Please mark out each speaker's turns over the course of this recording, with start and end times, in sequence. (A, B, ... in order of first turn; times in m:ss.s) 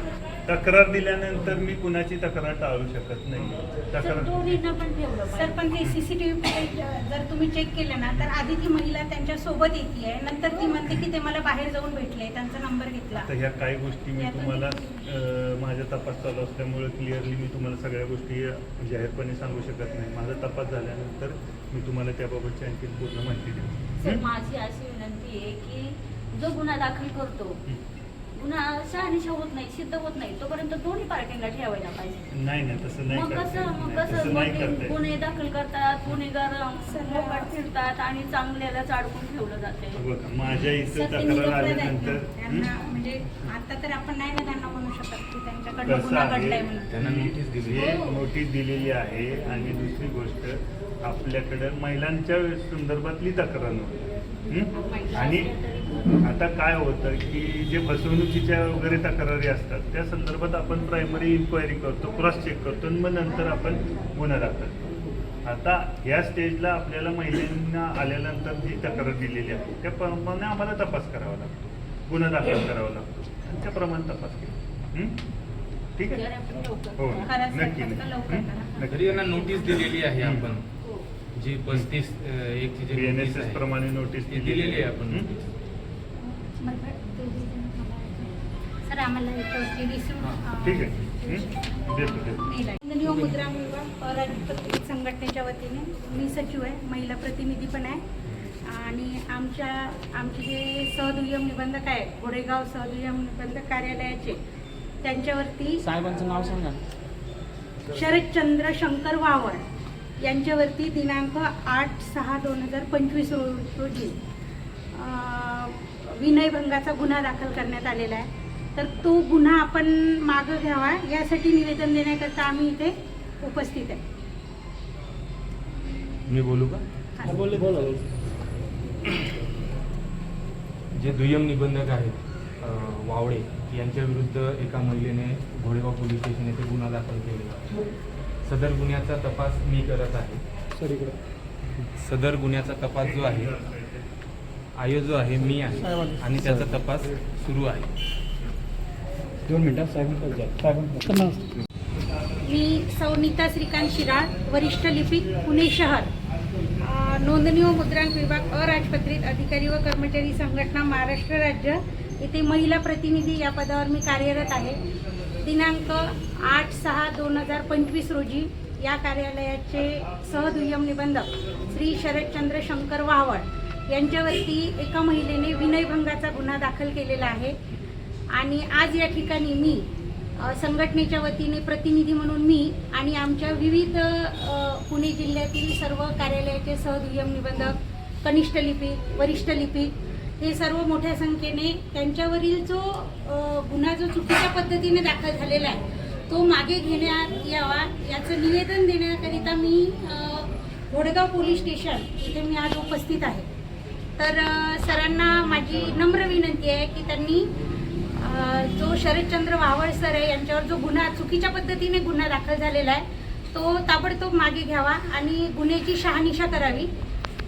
0:00.5-0:04.6 A
0:04.0-0:05.6 B
0:05.3-0:13.3 C
0:10.5-0:10.8 B
0:13.1-0:24.2 A
0:14.2-0:14.8 C
0:24.0-0:27.6 B
0:28.4-0:32.3 B
0:32.3-0:35.0 A
0:33.1-0:40.0 B
0:36.8-0:37.6 C
0:40.0-0:42.7 A
0:40.9-0:46.9 C
0:45.9-0:55.5 A
0:46.9-0:47.9 D
0:47.7-0:48.2 B
0:54.7-0:56.3 B
0:56.2-1:04.9 A
1:05.4-1:15.2 A
1:16.0-1:16.2 A
1:16.1-1:17.3 B
1:17.0-1:20.5 A
1:17.3-1:19.8 C
1:18.9-1:20.6 D
1:21.4-1:23.6 D
1:22.9-1:25.3 A
1:24.3-1:25.5 D
1:26.2-1:38.0 C
1:30.2-1:30.5 D
1:30.6-1:32.4 A
1:38.3-1:38.6 A
1:38.6-1:44.4 C
1:45.0-1:46.6 C
1:45.8-1:46.8 D
1:47.9-1:49.6 C
1:50.2-1:54.2 C
1:54.9-2:04.0 C
2:06.3-2:08.2 D
2:07.2-2:07.6 C
2:09.0-2:09.4 D
2:11.0-2:17.8 D
2:18.4-2:20.4 D
2:20.8-2:21.1 E
2:22.0-2:23.6 D
2:23.0-2:24.1 A
2:24.8-2:27.9 D
2:29.5-2:31.4 E
2:32.3-2:32.9 A
2:32.4-2:36.1 C
2:36.8-2:44.8 C
2:45.4-2:57.6 C
2:58.3-3:23.5 C
3:24.2-3:27.6 C
3:28.2-3:36.9 C